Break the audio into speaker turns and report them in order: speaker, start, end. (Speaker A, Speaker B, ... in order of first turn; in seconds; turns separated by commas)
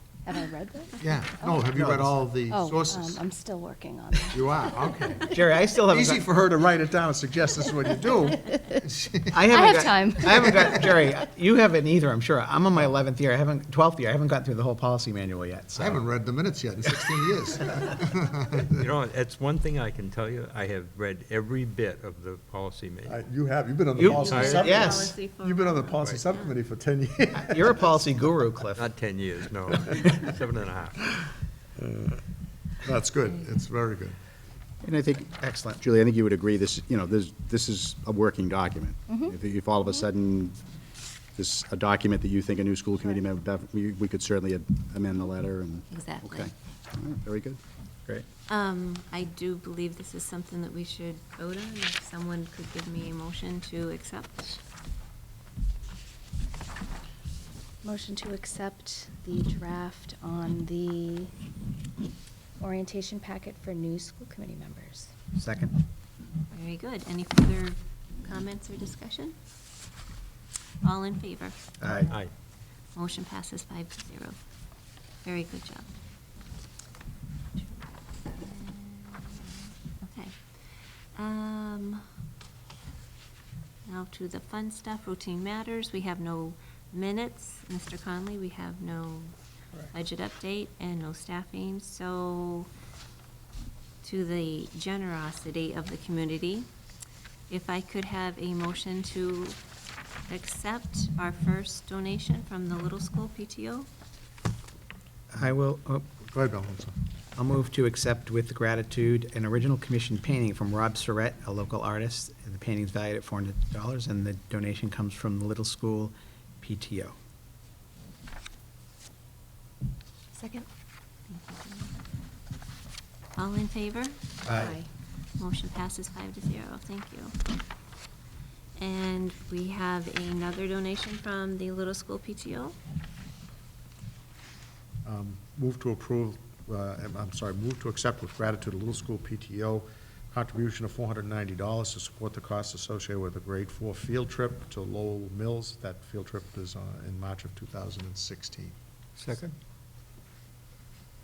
Speaker A: 0.2-1.6, Speaker B: 1.0-3.2, Speaker C: 1.7-2.1, Speaker A: 2.5-5.4, Speaker B: 4.3-5.3, Speaker C: 5.3-6.2, Speaker B: 5.9-9.4, Speaker A: 8.5-8.8, Speaker C: 9.3-16.0, Speaker A: 9.4-10.7, Speaker B: 15.8-18.9, Speaker D: 18.7-23.2, Speaker B: 23.0-27.9, Speaker C: 23.9-25.0, Speaker E: 24.0-26.5, Speaker D: 24.3-24.7, Speaker C: 27.4-28.9, Speaker D: 28.7-31.0, Speaker B: 31.8-32.2, Speaker B: 32.8-34.1, Speaker E: 33.2-33.5, Speaker C: 34.8-35.8, Speaker F: 34.9-35.3, Speaker F: 35.8-40.6, Speaker F: 41.4-47.6, Speaker E: 45.9-46.5, Speaker E: 48.5-54.6, Speaker A: 57.8-61.3, Speaker A: 62.6-65.1, Speaker C: 65.3-65.7, Speaker E: 66.5-69.3, Speaker E: 70.8-71.6, Speaker C: 71.8-72.1, Speaker E: 72.9-74.3, Speaker E: 75.2-75.8, Speaker E: 77.6-80.4, Speaker E: 81.1-82.1, Speaker E: 83.9-89.3, Speaker E: 89.9-92.7, Speaker E: 94.0-96.7, Speaker E: 97.5-99.6, Speaker E: 100.3-103.9, Speaker C: 105.3-106.0, Speaker B: 106.2-107.0, Speaker C: 107.3-117.1, Speaker E: 120.4-120.6, Speaker E: 121.3-121.9, Speaker E: 123.4-127.3, Speaker C: 124.4-124.7, Speaker E: 128.8-132.8, Speaker B: 135.0-148.7, Speaker D: 149.2-149.5